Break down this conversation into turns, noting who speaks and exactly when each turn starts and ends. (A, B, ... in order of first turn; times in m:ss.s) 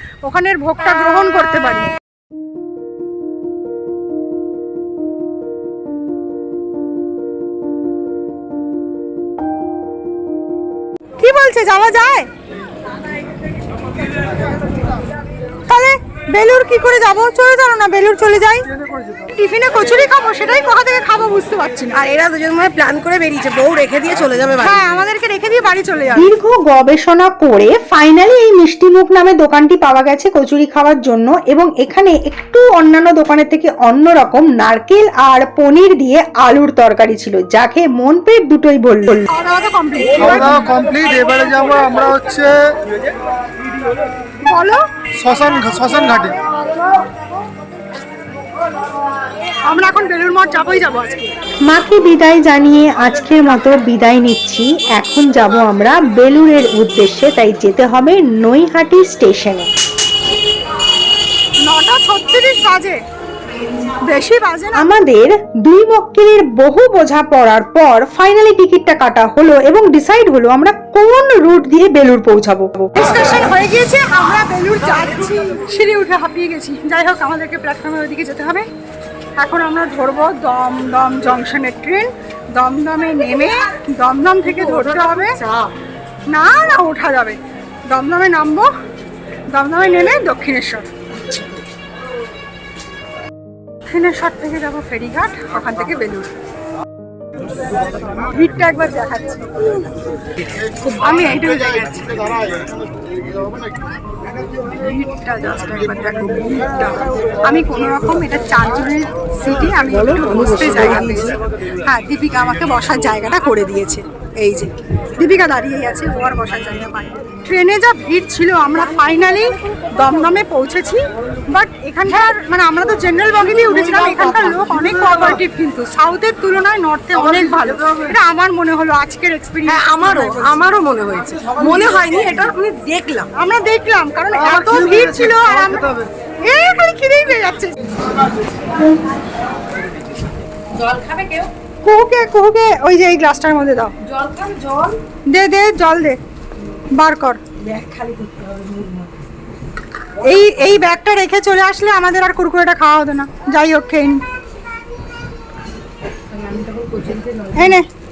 0:00.2-0:01.9 A
0:11.2-0:12.3 A
0:15.7-0:18.7 A
0:18.7-0:19.3 B
0:19.3-0:22.0 A
0:22.0-0:24.9 C
0:24.6-0:26.3 A
0:26.1-0:39.3 D
0:39.3-0:40.7 A
0:40.2-0:42.8 B
0:44.4-0:44.8 A
0:45.2-0:46.4 B
0:49.7-0:51.3 A
0:51.7-0:59.7 D
1:01.7-1:03.0 A
1:04.1-1:04.9 A
1:04.8-1:12.9 D
1:13.0-1:18.7 A
1:19.4-1:25.4 A
1:24.5-1:25.7 C
1:26.3-1:27.4 A
1:27.9-1:28.7 A
1:29.5-1:30.9 A
1:33.9-1:36.3 A
1:38.2-1:39.6 A
1:40.9-1:42.5 A
1:44.5-2:10.5 A
1:50.4-1:51.3 C
2:03.5-2:05.4 B
2:07.2-2:08.2 B
2:09.7-2:13.3 C
2:11.4-2:12.3 B
2:13.4-2:15.9 A
2:14.3-2:16.1 B
2:16.4-2:17.8 A
2:20.7-2:21.5 C
2:21.8-2:23.9 A
2:24.0-2:25.0 C
2:25.3-2:26.2 A
2:27.0-2:27.4 A
2:27.6-2:29.1 C
2:30.2-2:34.2 A
2:36.3-2:37.8 C
2:37.6-2:37.9 A